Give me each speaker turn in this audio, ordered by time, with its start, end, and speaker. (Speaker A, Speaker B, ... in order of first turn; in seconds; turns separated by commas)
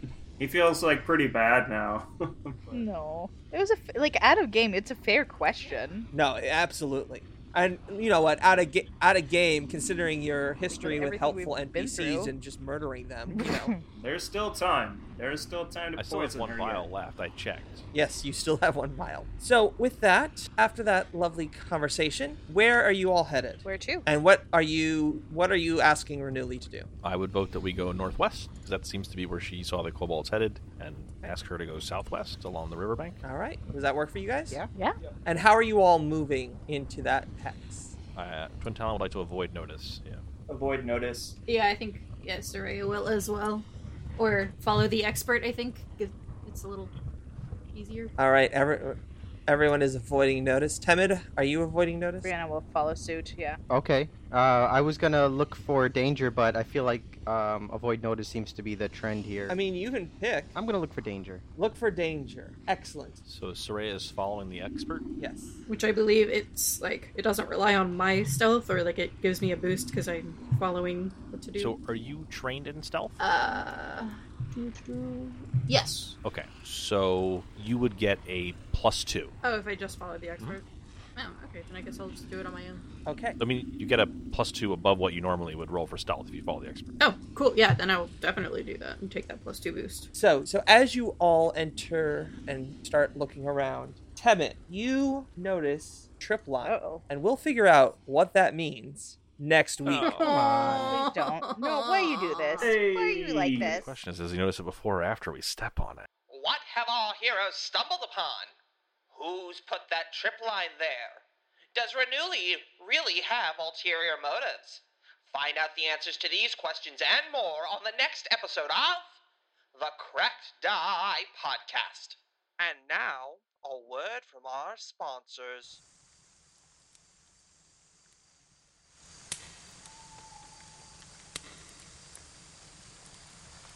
Speaker A: 0.4-2.9, Speaker B: 2.7-6.1, Speaker C: 6.1-13.7, Speaker B: 10.7-12.3, Speaker B: 13.3-13.8, Speaker A: 13.9-16.9, Speaker D: 15.9-17.8, Speaker C: 17.9-26.9, Speaker B: 23.6-24.1, Speaker D: 27.0-33.2, Speaker C: 33.2-34.6, Speaker C: 35.2-38.0, Speaker D: 38.1-40.2, Speaker A: 40.5-41.4, Speaker E: 41.5-46.9, Speaker E: 47.7-48.1, Speaker C: 48.2-52.3, Speaker B: 52.2-53.6, Speaker F: 53.7-59.6, Speaker C: 59.5-60.5, Speaker F: 60.5-61.4, Speaker C: 61.5-63.2, Speaker D: 63.2-65.0, Speaker C: 65.2-65.6, Speaker E: 65.7-71.8, Speaker D: 71.5-73.2, Speaker E: 73.2-76.2, Speaker D: 76.2-79.3, Speaker E: 79.4-80.6, Speaker E: 81.2-82.8, Speaker C: 83.0-83.4, Speaker D: 83.4-86.9, Speaker E: 87.0-90.1, Speaker C: 90.1-101.0, Speaker B: 96.6-97.0, Speaker D: 99.8-100.3, Speaker E: 100.0-102.8, Speaker B: 100.5-103.9, Speaker A: 102.6-103.8, Speaker D: 103.7-106.1, Speaker G: 106.3-108.5, Speaker G: 109.1-119.2, Speaker G: 119.7-122.2, Speaker C: 122.6-125.8